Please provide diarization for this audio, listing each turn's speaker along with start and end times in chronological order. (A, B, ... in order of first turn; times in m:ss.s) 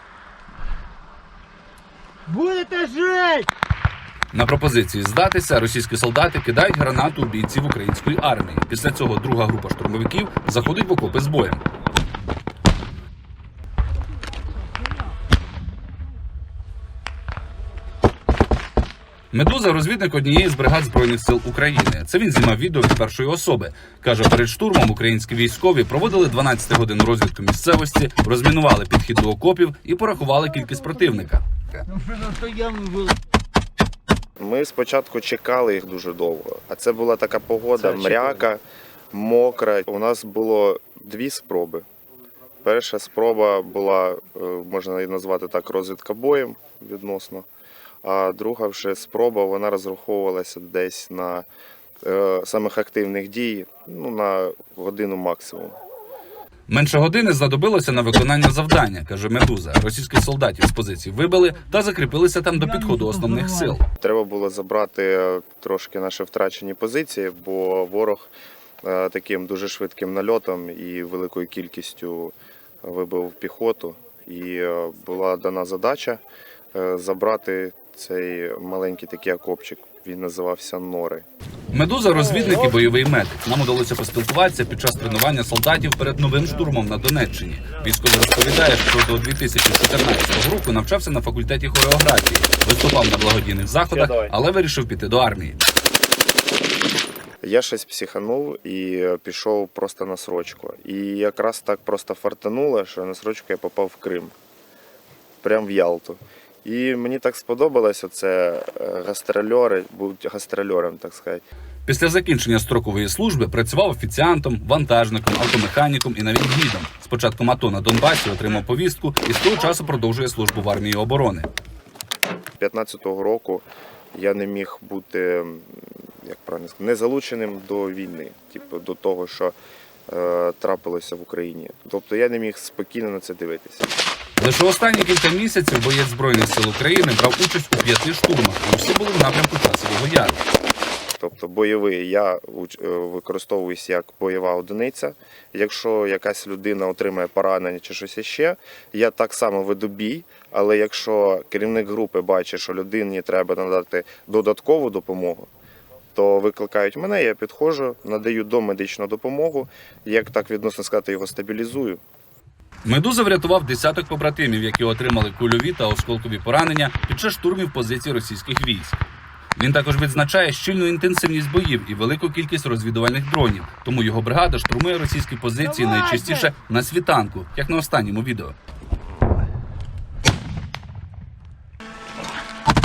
0:02.3-0:03.5 A
0:04.3-0:11.6 B
0:19.3-0:31.8 B
0:31.9-0:33.1 A
0:34.4-0:41.8 C
0:42.6-0:47.4 C
0:48.0-0:51.4 C
0:52.0-0:55.8 C
0:56.7-1:03.8 B
1:02.5-1:03.7 A
1:04.0-1:08.3 C
1:08.8-1:16.2 C
1:16.7-1:21.2 C
1:21.7-1:35.6 B
1:33.9-1:34.3 C
1:37.4-1:44.3 C
1:45.4-1:51.4 C
1:51.8-2:01.5 B
2:02.6-2:09.5 C
2:10.1-2:13.9 C
2:14.4-2:20.4 B
2:21.2-2:35.5 C
2:36.1-2:42.0 C
2:42.8-2:49.0 B
2:49.6-2:58.5 B
2:55.8-2:56.4 A